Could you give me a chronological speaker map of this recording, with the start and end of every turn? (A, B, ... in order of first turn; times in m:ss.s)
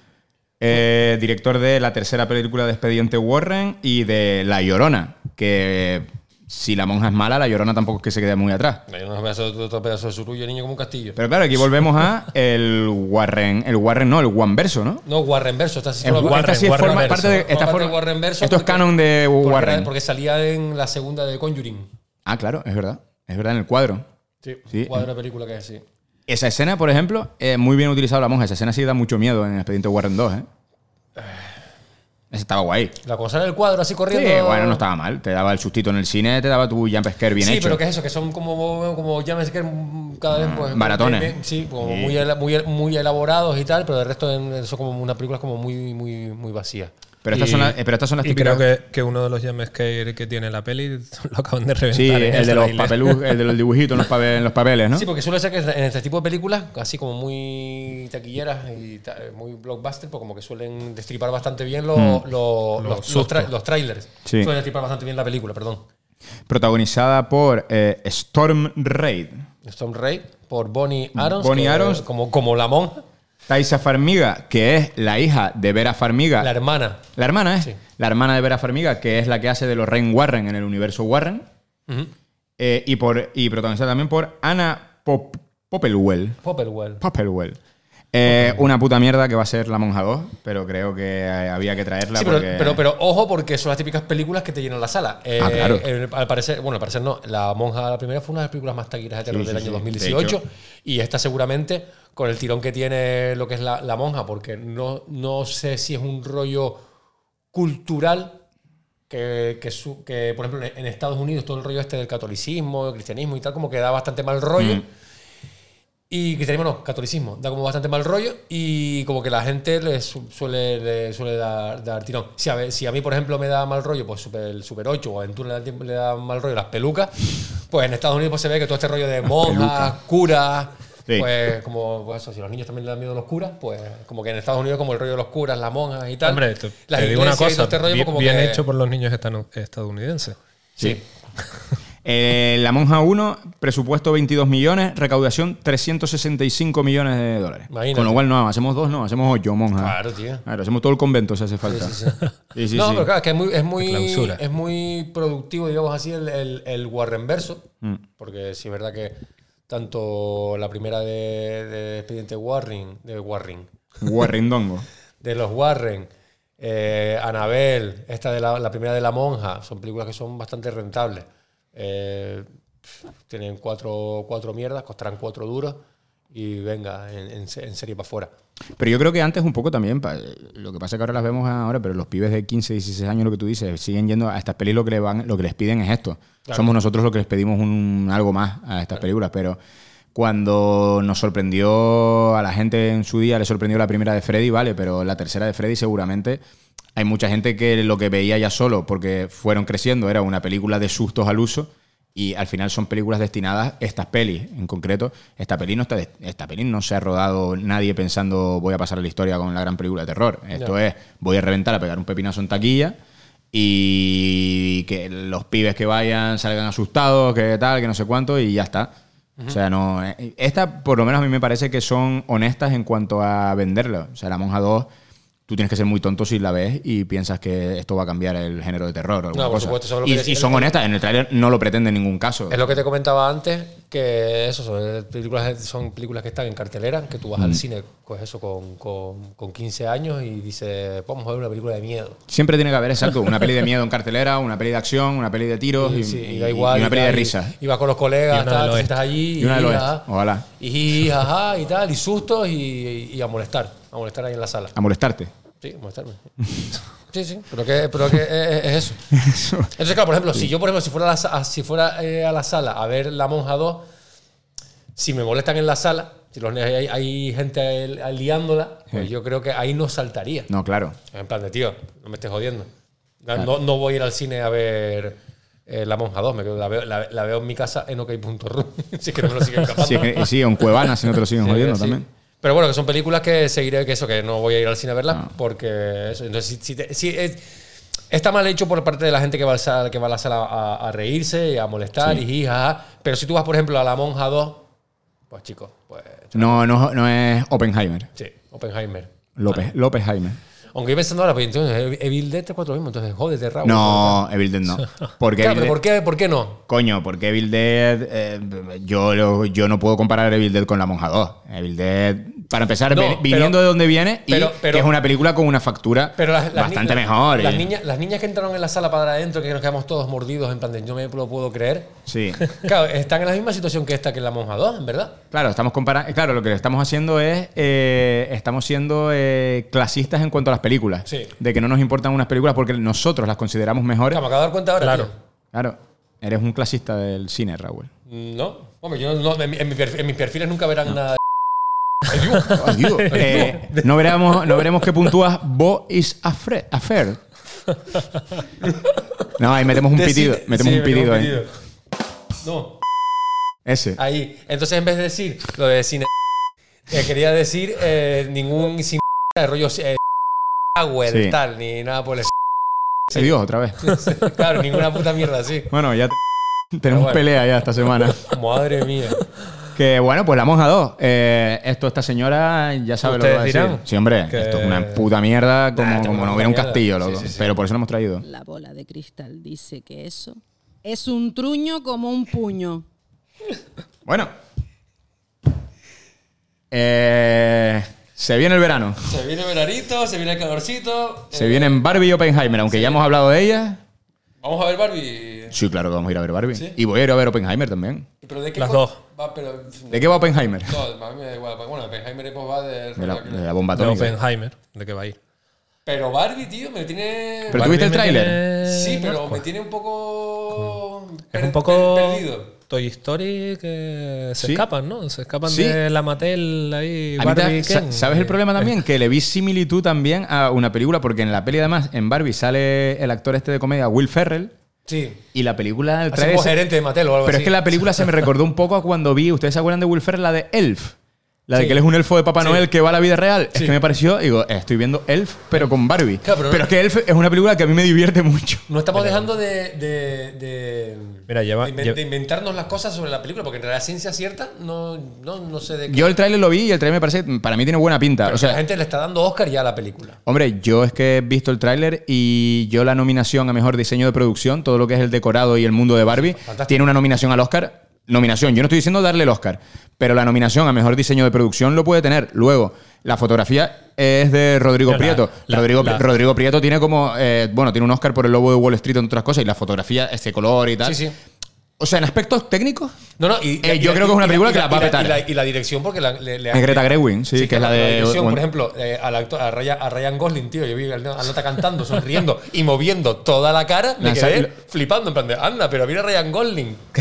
0:00.6-0:08.8 A
0:08.9-0:11.2 B
0:11.2-0:15.0 A
0:15.0-0:21.9 B
0:16.0-0:19.9 A
0:16.2-0:17.3 C
0:22.2-0:24.0 A
0:24.4-0:25.8 B
0:24.7-0:25.1 A
0:26.3-0:30.5 A
0:31.2-0:31.6 B
0:32.3-0:33.0 A
0:33.0-0:34.8 B
0:34.1-0:37.8 A
0:37.4-0:46.9 B
0:40.3-0:42.2 A
0:47.2-0:48.6 A
0:47.4-0:53.5 C
0:51.9-0:55.1 A
0:54.9-1:05.8 B
1:01.9-1:02.2 A
1:02.8-1:03.5 C
1:04.2-1:04.5 A
1:06.5-1:09.4 A
1:09.6-1:13.0 B
1:11.2-1:12.0 A
1:13.5-1:16.5 A
1:16.4-1:17.1 B
1:17.2-1:21.5 A
1:22.6-1:26.4 A
1:26.4-1:27.0 B
1:27.0-1:27.6 A
1:28.1-1:32.8 A
1:28.3-1:28.6 B
1:32.2-1:46.8 B
1:35.4-1:35.8 A
1:39.3-1:40.4 A
1:47.5-1:48.4 B
1:49.1-1:54.8 B
1:54.6-1:54.8 A
1:56.1-2:18.6 B
2:09.4-2:09.9 A
2:16.2-2:20.4 C
2:20.8-2:21.0 B
2:22.0-2:31.9 A
2:27.7-2:28.2 B
2:29.8-2:30.4 B
2:31.6-2:32.2 B
2:32.6-2:33.1 A
2:32.7-2:37.7 B
2:33.8-2:34.4 C
2:38.2-2:39.2 B
2:39.7-2:43.7 B
2:44.0-2:44.9 A
2:45.2-2:52.5 B
2:53.3-2:58.3 B
2:58.8-3:09.6 A
3:06.5-3:06.8 B
3:10.2-3:16.4 A
3:17.0-3:33.0 A
3:33.5-3:39.0 A
3:39.5-3:44.9 A
3:45.5-3:52.6 A
3:49.3-3:50.8 B
3:52.5-4:02.2 B
4:02.3-4:07.5 A
4:05.8-4:10.1 B
4:08.3-4:09.0 C
4:09.4-4:10.5 A
4:10.6-4:14.8 B
4:14.8-4:15.3 A
4:15.6-4:16.3 B
4:17.1-4:19.0 B
4:19.1-4:19.7 A
4:19.8-4:23.8 B
4:25.0-4:30.5 B
4:30.5-4:31.0 A
4:31.1-4:32.7 B
4:33.2-4:40.3 B
4:39.8-4:42.1 A
4:41.4-4:47.5 B
4:48.1-4:54.7 B
4:55.3-4:56.7 B
4:56.3-4:58.1 A
4:58.2-4:59.7 B
4:59.4-5:00.4 A
5:00.7-5:04.2 B
5:03.6-5:05.8 A
5:05.4-5:06.6 B
5:06.7-5:17.7 A
5:12.9-5:13.7 B
5:14.3-5:14.9 B
5:16.2-5:21.9 B
5:22.1-5:22.4 A
5:22.5-5:25.2 B
5:25.3-5:34.2 A
5:31.1-5:31.3 B
5:34.1-5:35.1 B
5:34.8-5:35.1 C
5:35.5-5:37.9 A
5:38.1-5:41.2 B
5:42.1-5:43.8 B
5:42.5-5:47.2 A
5:43.1-5:43.5 C
5:49.4-5:51.4 A
5:49.9-5:51.5 B
5:52.4-5:52.8 B
5:53.7-5:54.0 A
5:54.0-5:56.1 B
5:56.9-6:00.0 B
6:00.8-6:02.3 B
6:01.1-6:01.4 A
6:03.1-6:04.0 A
6:03.8-6:05.7 B
6:05.7-6:06.2 A
6:06.7-6:08.2 A
6:06.9-6:07.2 B
6:08.2-6:09.2 B
6:09.8-6:18.2 A
6:13.0-6:14.9 C
6:15.8-6:17.5 B
6:18.2-6:22.8 D
6:24.1-6:24.3 A
6:26.7-6:29.0 A
6:29.1-6:31.8 B
6:31.3-6:33.8 A
6:32.7-6:33.0 B
6:34.4-6:35.6 B
6:35.5-6:38.1 A
6:36.5-6:36.8 B
6:38.2-6:43.4 B
6:38.6-6:39.0 C
6:39.9-6:40.8 A
6:43.0-6:44.2 A
6:43.8-6:45.2 C
6:45.9-6:47.9 B
6:47.5-6:48.4 A
6:47.5-6:49.4 C
6:48.6-6:52.5 B
6:51.3-6:58.7 C
6:54.4-6:54.6 A
6:55.5-6:55.8 A
6:57.2-7:04.5 A
7:04.9-7:05.2 B
7:05.3-7:06.6 A
7:06.1-7:08.2 B
7:07.2-7:11.0 A
7:11.5-7:18.6 A
7:11.5-7:11.8 B
7:12.4-7:12.6 B
7:16.2-7:16.7 B
7:18.7-7:26.1 B
7:21.3-7:22.0 C
7:25.9-7:28.6 A
7:28.2-7:30.2 B
7:30.3-7:51.0 A
7:36.2-7:36.8 B
7:44.9-7:46.0 C
7:50.8-7:51.2 B
7:51.8-7:52.9 A
7:53.2-8:06.9 B
7:53.6-7:55.2 A
7:56.5-7:58.4 A
8:04.0-8:04.5 A